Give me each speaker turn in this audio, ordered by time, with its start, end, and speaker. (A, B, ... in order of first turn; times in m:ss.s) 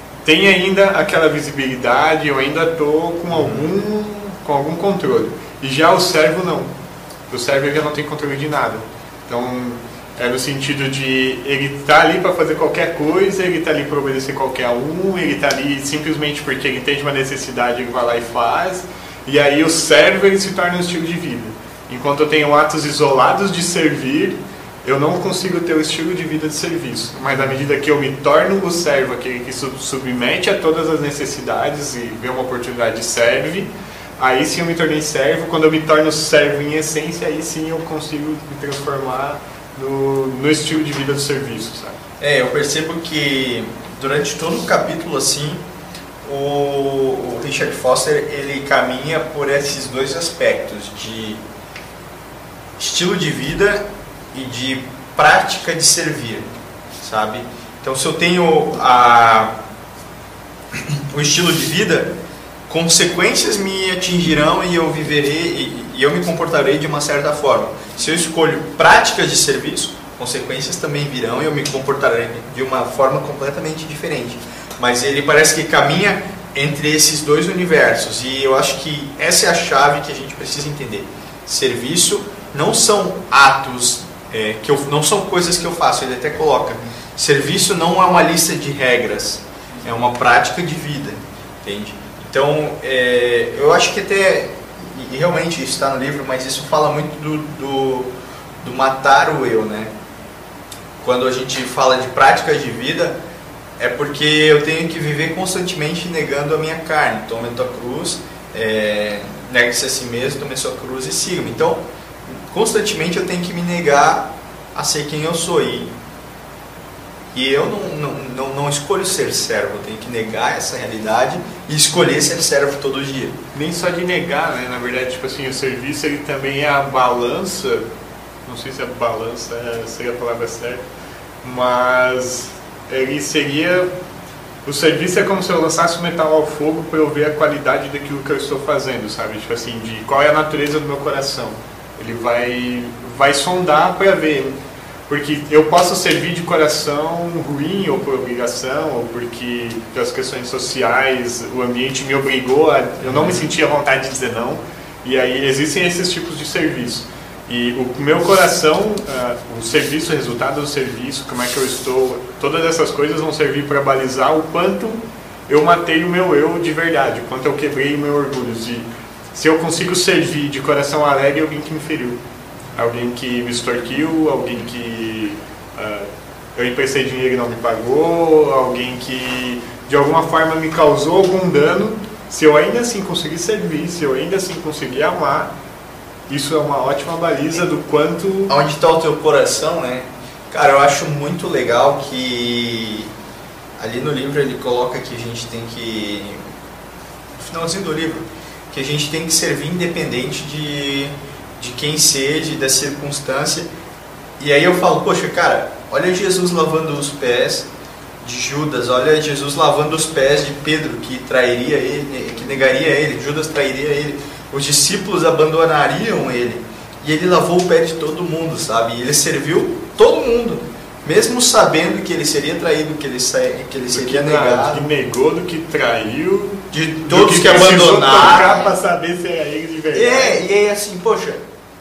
0:00.2-0:06.7 A
0:03.3-0:03.7 B
0:07.3-0:42.0 A
0:42.2-0:45.6 B
0:46.2-0:51.4 B
0:52.8-0:56.5 B
0:57.0-0:59.6 B
1:00.7-1:02.1 B
1:02.7-1:38.1 B
1:38.6-1:39.9 B
1:41.0-1:43.2 B
1:43.8-1:55.9 B
1:57.3-2:03.4 B
2:03.5-2:07.8 A
2:08.4-2:10.8 A
2:11.4-2:13.9 A
2:14.6-2:52.2 A
2:33.0-2:33.4 B
2:52.7-3:05.5 A
3:06.3-3:08.5 A
3:08.5-3:13.1 B
3:13.8-3:16.4 B
3:17.4-3:23.7 B
3:24.4-3:27.7 B
3:28.2-3:44.8 B
3:43.9-3:50.4 A
3:46.7-3:48.7 B
3:49.9-3:51.4 B